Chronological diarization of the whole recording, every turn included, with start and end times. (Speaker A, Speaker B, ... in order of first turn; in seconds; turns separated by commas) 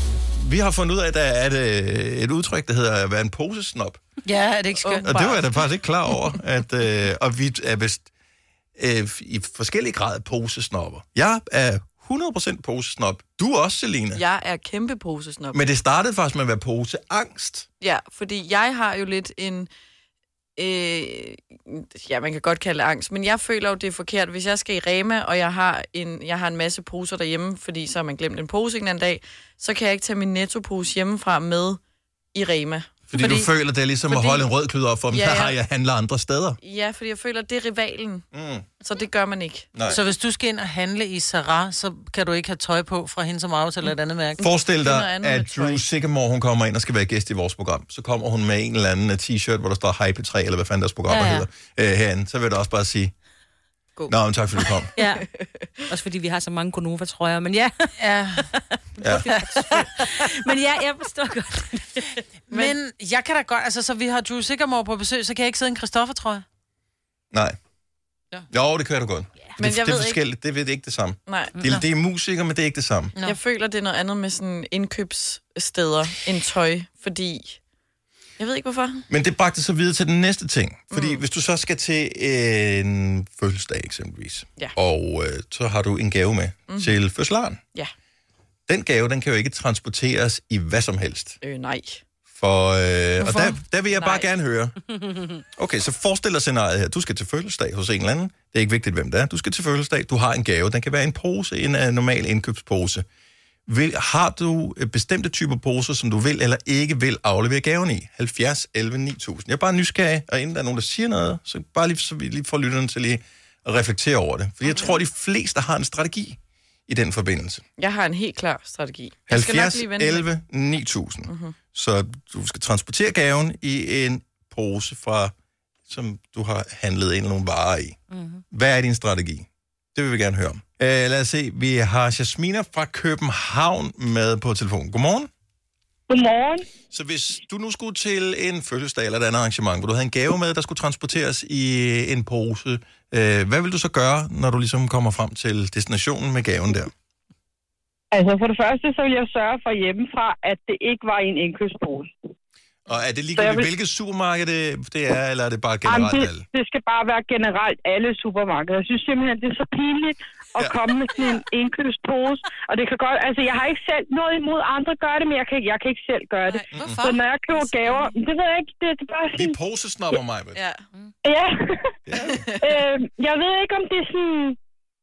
Speaker A: 0.3-4.0, Speaker B: 4.2-5.6, Speaker C: 4.8-5.1, Speaker A: 5.0-8.1, Speaker A: 8.8-14.2, Speaker C: 14.1-15.6, Speaker A: 15.5-17.7, Speaker C: 17.8-19.7, Speaker C: 20.6-31.8, Speaker C: 32.3-33.4, Speaker A: 33.1-36.6, Speaker C: 34.1-34.5, Speaker C: 35.1-35.6, Speaker C: 36.6-38.3, Speaker A: 38.3-38.7, Speaker C: 38.8-39.9, Speaker A: 39.7-40.0, Speaker B: 39.9-44.4, Speaker C: 44.4-45.8, Speaker A: 44.4-53.1, Speaker D: 51.1-51.5, Speaker A: 54.1-54.9, Speaker D: 55.0-55.3, Speaker C: 55.0-55.7, Speaker D: 55.9-62.1, Speaker B: 58.0-58.5, Speaker B: 59.3-59.7, Speaker B: 62.5-66.4, Speaker A: 67.3-67.6, Speaker A: 68.5-73.1, Speaker C: 69.6-70.2, Speaker C: 71.3-71.6, Speaker C: 73.2-77.6, Speaker C: 78.4-79.0, Speaker A: 79.1-87.6, Speaker C: 80.9-81.2, Speaker C: 86.7-87.0, Speaker A: 88.7-91.4, Speaker C: 91.4-92.0, Speaker A: 92.3-103.1, Speaker C: 93.2-94.3, Speaker A: 103.7-117.6, Speaker C: 117.8-120.2, Speaker A: 119.3-125.3, Speaker C: 121.3-121.6, Speaker A: 125.9-128.0, Speaker A: 128.5-135.3, Speaker E: 136.1-136.7, Speaker A: 136.9-146.9, Speaker E: 148.1-152.1, Speaker A: 152.9-156.4, Speaker E: 153.3-153.7, Speaker E: 155.9-169.6, Speaker B: 166.7-168.2, Speaker A: 166.7-167.1, Speaker A: 169.3-170.6, Speaker C: 170.6-170.8, Speaker E: 171.2-172.0, Speaker A: 172.1-172.5, Speaker C: 172.2-172.6, Speaker E: 172.6-174.6